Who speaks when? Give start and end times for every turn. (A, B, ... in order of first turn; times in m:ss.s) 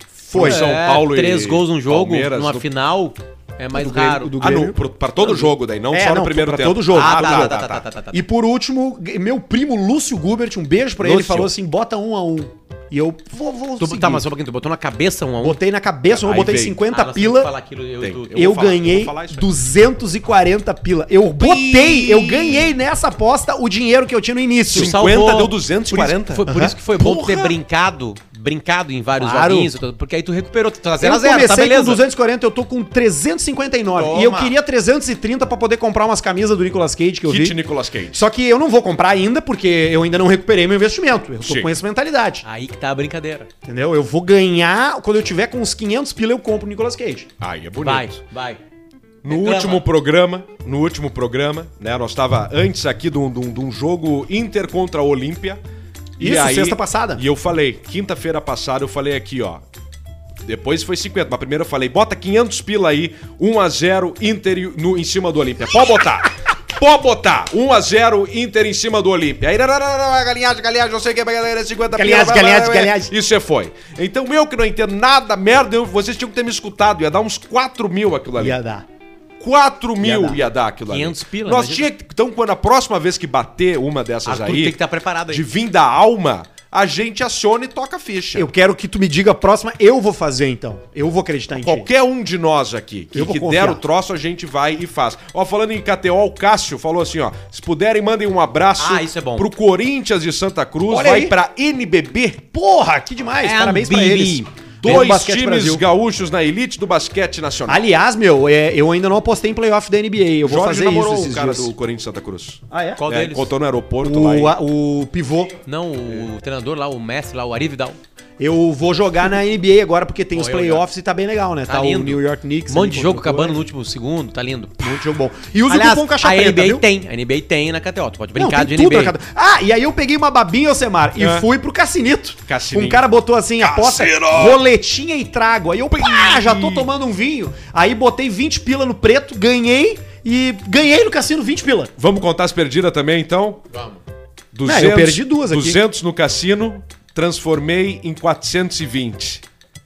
0:00.2-0:00.6 A
0:00.3-0:02.6 B
0:00.3-0:04.4 C
0:03.7-0:04.8 A
0:04.4-0:07.8 B
0:05.3-0:07.6 A
0:06.9-0:08.2 C
0:08.1-0:14.2 A
0:11.0-0:11.5 B
0:13.8-0:15.6 C
0:15.4-0:17.5 A
0:16.1-0:16.8 B
0:16.6-0:18.4 C
0:18.0-0:19.5 B
0:18.3-0:25.0 A
0:21.4-0:22.7 B
0:24.7-0:27.6 B
0:24.7-0:32.0 C
0:26.5-0:26.8 A
0:29.2-0:29.7 A
0:31.0-0:37.6 A
0:33.9-0:34.5 C
0:37.2-0:38.2 B
0:38.1-0:42.4 A
0:41.4-0:41.7 B
0:42.4-0:43.5 C
0:43.6-0:47.3 A
0:47.4-0:48.2 B
0:47.8-0:48.6 C
0:49.2-0:55.6 B
0:49.3-0:49.8 C
0:56.2-0:59.6 B
0:56.2-0:57.2 A
1:00.5-1:18.6 B
1:11.9-1:13.1 A
1:18.4-1:18.9 A
1:19.4-1:24.8 B
1:20.0-1:20.4 A
1:20.9-1:21.9 C
1:24.3-1:25.4 C
1:25.3-1:28.5 B
1:28.3-1:31.9 A
1:31.6-1:42.5 B
1:33.1-1:33.8 A
1:38.8-1:39.5 C
1:40.9-1:41.4 A
1:42.5-1:45.8 A
1:43.4-1:44.5 C
1:44.8-1:47.8 B
1:47.7-1:51.7 A
1:50.4-1:54.6 B
1:52.7-1:53.0 A
1:53.0-1:53.5 C
1:54.0-1:55.6 A
1:55.6-1:58.0 C
1:58.4-2:03.6 A
2:00.3-2:00.8 C
2:01.7-2:04.9 C
2:04.8-2:06.8 A
2:05.7-2:09.2 C
2:08.4-2:21.9 A
2:11.2-2:11.5 B
2:12.5-2:13.0 B
2:13.6-2:14.6 B
2:15.9-2:16.9 B
2:22.0-2:23.6 B
2:23.7-2:24.0 C
2:24.5-2:29.4 B
2:24.6-2:25.8 A